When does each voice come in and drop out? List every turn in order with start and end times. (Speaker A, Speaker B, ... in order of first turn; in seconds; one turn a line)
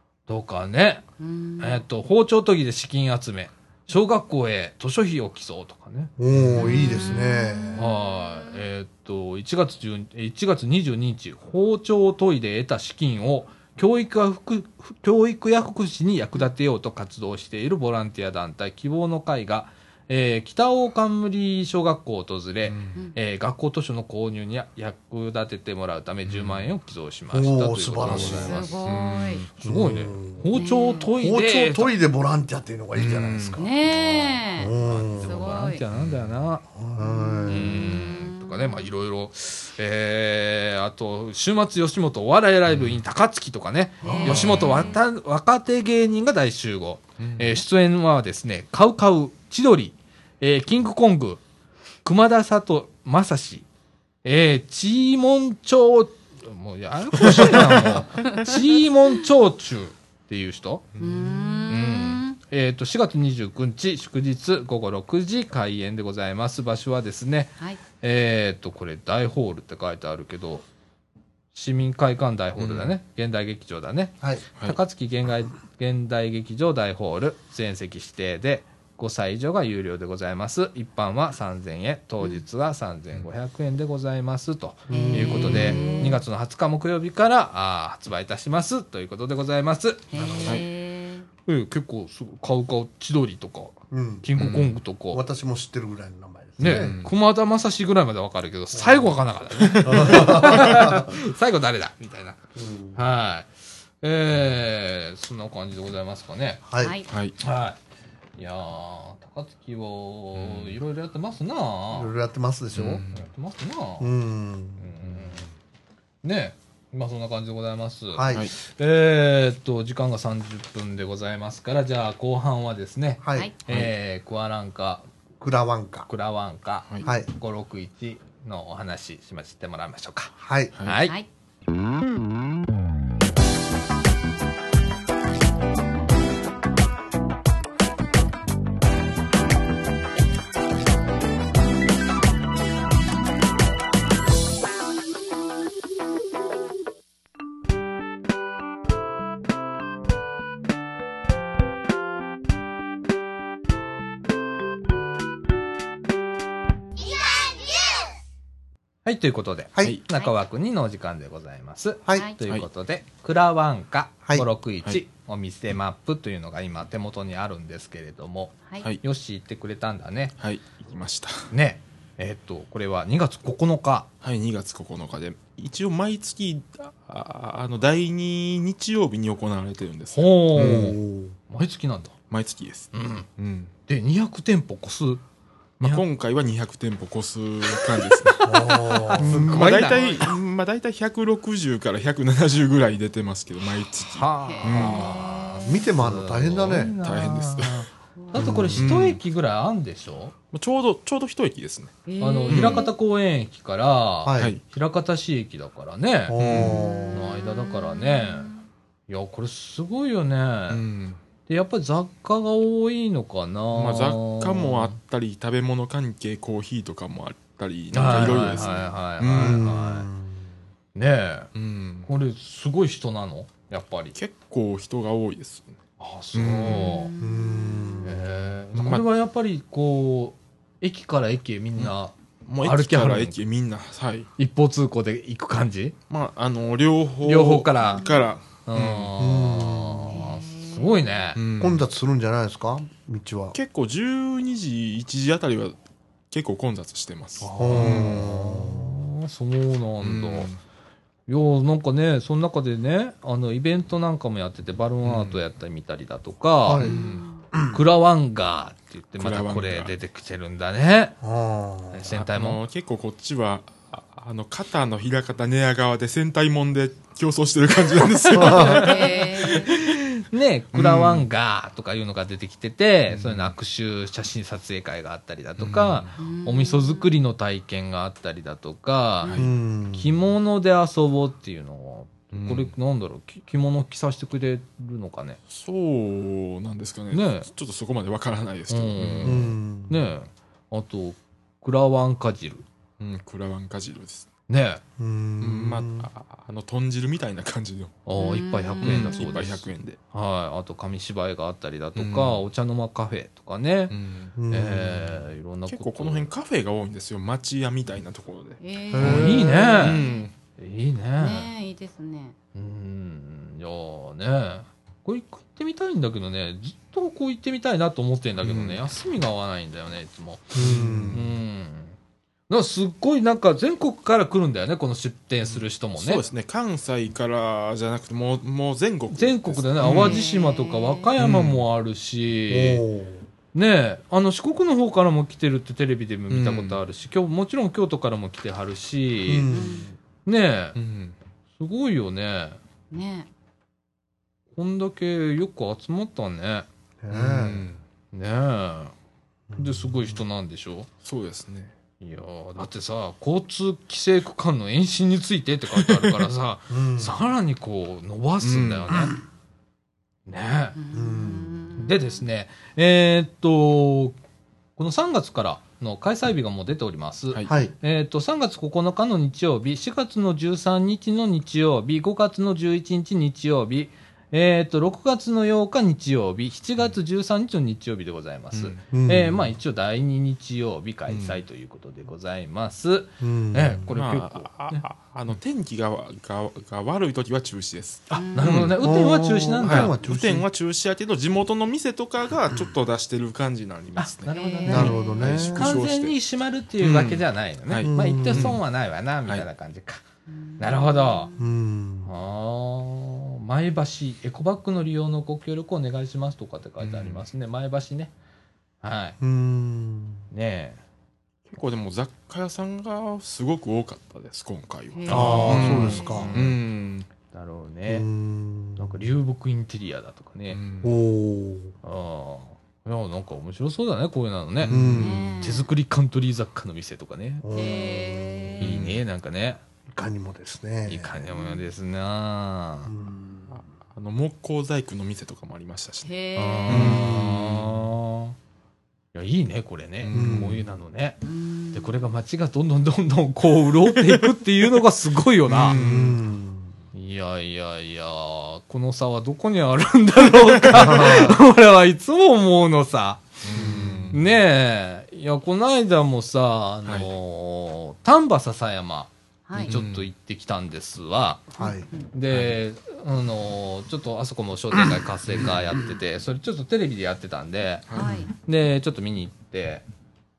Speaker A: 0.3-1.0
Speaker B: 1.2-1.8
Speaker A: 1.6-6.1
Speaker C: 6.2-7.8
Speaker D: 6.3-6.8
Speaker B: 6.5-8.5
Speaker A: 7.8-28.9
Speaker D: 22.6-23.0
Speaker D: 26.3-26.7
Speaker C: 27.3-28.7
Speaker D: 28.0-29.5
Speaker B: 28.1-29.4
Speaker A: 29.6-31.9
Speaker C: 29.6-30.5
Speaker B: 30.5-31.1
Speaker C: 31.1-33.6
Speaker D: 33.0-33.6
Speaker B: 33.5-35.8
Speaker A: 33.8-36.6
Speaker C: 34.6-35.5
Speaker D: 35.9-36.3
Speaker C: 36.7-38.0
Speaker B: 37.0-38.9
Speaker A: 37.5-51.4
Speaker D: 42.7-43.0
Speaker B: 44.0-45.0
Speaker C: 44.0-44.5
Speaker D: 44.2-44.8
Speaker D: 47.2-47.6
Speaker A: 52.0-53.6
Speaker A: 54.2-60.8
Speaker C: 57.5-57.8
Speaker D: 60.9-61.4
Speaker B: 61.0-62.4
Speaker A: 61.7-70.6
Speaker A: 71.5-90.0
Speaker D: 72.6-72.9
Speaker C: 84.9-86.2
Speaker B: 84.9-86.2
Speaker B: 90.1-91.3
Speaker C: 90.1-90.6
Speaker A: 91.5-95.2
Speaker C: 93.9-94.2
Speaker D: 94.4-94.7
Speaker C: 95.1-96.9
Speaker A: 96.6-102.4
Speaker D: 96.6-97.1
Speaker C: 98.7-99.1
Speaker D: 99.6-100.7
Speaker C: 99.8-101.1
Speaker C: 102.5-103.0
Speaker A: 102.9-103.5
Speaker A: 104.0-106.6
Speaker C: 106.7-107.0
Speaker B: 106.8-107.1
Speaker D: 107.1-107.3
Speaker A: 107.4-107.8
Speaker A: 108.4-112.1
Speaker D: 110.3-110.8
Speaker C: 111.9-113.0
Speaker D: 112.7-113.2
Speaker A: 113.1-114.1
Speaker C: 114.0-114.9
Speaker A: 114.8-115.5
Speaker A: 116.2-125.0
Speaker C: 118.1-118.5
Speaker C: 123.2-123.5
Speaker C: 125.4-126.1
Speaker A: 126.1-131.1
Speaker C: 130.4-130.7
Speaker A: 159.0-170.3
Speaker C: 159.7-160.0
Speaker D: 170.4-171.5
Speaker A: 171.5-174.1
Speaker D: 174.2-180.9
Speaker A: 180.1-182.1
Speaker C: 180.6-181.3
Speaker D: 182.3-183.7
Speaker A: 182.9-183.3
Speaker A: 183.9-185.2
Speaker D: 185.8-195.1
Speaker A: 188.4-190.3
Speaker C: 188.4-190.4
Speaker A: 194.0-200.3
Speaker B: 194.4-195.9
Speaker C: 195.6-196.9
Speaker D: 197.0-197.8
Speaker B: 198.2-198.4
Speaker C: 198.3-199.0
Speaker D: 198.4-199.2
Speaker D: 200.5-201.9
Speaker B: 202.1-202.9
Speaker A: 202.2-206.4
Speaker D: 202.5-202.8
Speaker C: 204.2-204.5
Speaker C: 206.3-207.2
Speaker D: 206.4-206.8
Speaker B: 206.5-208.7
Speaker A: 207.1-208.5
Speaker A: 209.1-210.8
Speaker D: 210.7-211.2
Speaker A: 211.5-214.9
Speaker D: 213.8-219.6
Speaker A: 217.9-220.1
Speaker C: 219.3-220.3
Speaker A: 220.9-221.5
Speaker D: 221.5-222.1
Speaker A: 222.0-224.2
Speaker D: 224.1-225.8
Speaker A: 226.0-227.1
Speaker D: 226.3-227.0
Speaker B: 226.8-228.2
Speaker C: 227.2-228.2
Speaker A: 228.0-233.3
Speaker D: 228.7-229.0
Speaker D: 232.5-234.3
Speaker A: 234.4-235.9
Speaker D: 236.1-239.1
Speaker A: 237.2-238.1
Speaker A: 238.6-241.4
Speaker C: 239.2-240.2
Speaker B: 240.1-241.2
Speaker D: 241.3-241.8
Speaker C: 241.6-243.5
Speaker D: 243.5-245.8
Speaker D: 246.3-248.3
Speaker C: 247.5-249.1
Speaker A: 247.6-250.5
Speaker D: 250.0-250.6
Speaker A: 251.3-256.9
Speaker D: 255.0-255.4
Speaker C: 256.6-257.0
Speaker B: 256.8-257.4
Speaker D: 256.8-257.2
Speaker C: 257.5-257.8
Speaker A: 257.7-261.2
Speaker D: 259.2-259.9
Speaker C: 261.2-262.1
Speaker A: 261.9-262.6
Speaker D: 262.1-269.9
Speaker A: 268.2-285.4
Speaker C: 268.3-268.8
Speaker B: 268.5-269.8
Speaker C: 270.7-271.2
Speaker D: 273.1-273.5
Speaker D: 275.6-276.1
Speaker B: 276.2-277.1
Speaker D: 279.2-279.5
Speaker C: 279.3-280.1
Speaker D: 282.3-282.7
Speaker D: 285.5-289.5
Speaker A: 287.1-287.5
Speaker A: 288.7-292.6
Speaker C: 289.2-290.0
Speaker D: 293.0-294.3
Speaker A: 294.5-294.8
Speaker C: 295.0-296.1
Speaker D: 295.4-297.9
Speaker A: 298.1-303.9
Speaker B: 298.2-299.2
Speaker D: 298.8-300.0
Speaker D: 302.0-302.4
Speaker D: 303.9-304.3
Speaker C: 304.4-305.3
Speaker A: 304.5-306.3
Speaker D: 305.7-310.3
Speaker B: 308.6-310.3
Speaker C: 308.9-309.8
Speaker A: 309.0-310.0
Speaker A: 310.6-311.5
Speaker B: 311.2-312.4
Speaker A: 312.5-321.9
Speaker D: 318.4-318.8
Speaker C: 320.5-321.3
Speaker D: 320.6-321.2
Speaker A: 322.5-326.2
Speaker D: 325.5-330.2
Speaker A: 329.1-332.8
Speaker B: 329.8-331.1
Speaker D: 331.2-331.6
Speaker C: 332.5-333.2
Speaker A: 333.5-339.5
Speaker D: 336.3-336.8
Speaker C: 339.3-339.9
Speaker B: 339.5-339.9
Speaker A: 340.2-340.8
Speaker D: 340.8-341.1
Speaker A: 341.6-342.6
Speaker B: 342.9-343.3
Speaker A: 344.5-346.6
Speaker C: 347.0-347.6
Speaker D: 347.1-347.8
Speaker A: 348.1-348.9
Speaker C: 349.5-350.2
Speaker A: 349.5-350.9
Speaker D: 351.0-351.7
Speaker A: 352.0-359.1
Speaker C: 356.7-357.1
Speaker D: 358.4-359.1
Speaker A: 360.3-360.8
Speaker B: 360.8-362.2
Speaker C: 360.9-361.6
Speaker A: 361.8-364.2
Speaker A: 364.8-384.8
Speaker C: 367.5-367.7
Speaker D: 378.5-378.8
Speaker C: 378.9-379.5
Speaker D: 381.1-381.4
Speaker C: 383.2-383.8
Speaker D: 383.9-388.8
Speaker B: 388.1-388.8
Speaker A: 388.3-389.9
Speaker C: 388.8-390.4
Speaker D: 389.6-396.1
Speaker A: 394.0-400.0
Speaker B: 394.3-395.5
Speaker C: 394.6-395.6
Speaker D: 396.8-398.6
Speaker C: 397.8-398.6
Speaker B: 400.3-401.5
Speaker A: 400.6-401.3
Speaker C: 401.4-402.1
Speaker A: 402.1-408.1
Speaker D: 406.8-407.2
Speaker A: 408.8-409.2
Speaker C: 409.2-410.2
Speaker A: 410.3-410.8
Speaker D: 411.5-417.1
Speaker B: 414.9-416.3
Speaker A: 415.1-416.6
Speaker C: 415.1-416.3
Speaker A: 417.3-418.1
Speaker C: 417.9-419.0
Speaker A: 418.8-420.6
Speaker D: 420.5-420.9
Speaker C: 420.8-421.7
Speaker A: 421.8-427.4
Speaker D: 424.6-425.2
Speaker C: 424.7-425.3
Speaker B: 425.0-425.7
Speaker C: 427.4-428.6
Speaker B: 427.5-428.8
Speaker D: 428.6-429.0
Speaker A: 428.6-429.6
Speaker C: 429.9-431.1
Speaker A: 430.9-432.9
Speaker B: 431.3-431.6
Speaker C: 432.9-433.6
Speaker D: 433.5-436.1
Speaker B: 436.0-436.8
Speaker A: 436.4-438.3
Speaker D: 436.7-437.1
Speaker C: 436.7-437.7
Speaker A: 439.1-441.2
Speaker D: 440.0-440.6
Speaker C: 440.1-440.6
Speaker B: 441.2-441.9
Speaker A: 441.7-445.8
Speaker D: 444.0-444.3
Speaker D: 445.5-446.2
Speaker C: 445.7-446.7
Speaker A: 446.9-461.6
Speaker D: 450.4-451.3
Speaker C: 450.7-451.4
Speaker D: 453.4-454.2
Speaker C: 453.6-454.0
Speaker B: 459.5-459.8
Speaker D: 459.6-460.1
Speaker B: 461.6-462.0
Speaker C: 461.6-461.9
Speaker A: 462.1-469.8
Speaker D: 462.3-462.6
Speaker D: 465.3-465.6
Speaker D: 467.9-468.2
Speaker B: 467.9-468.3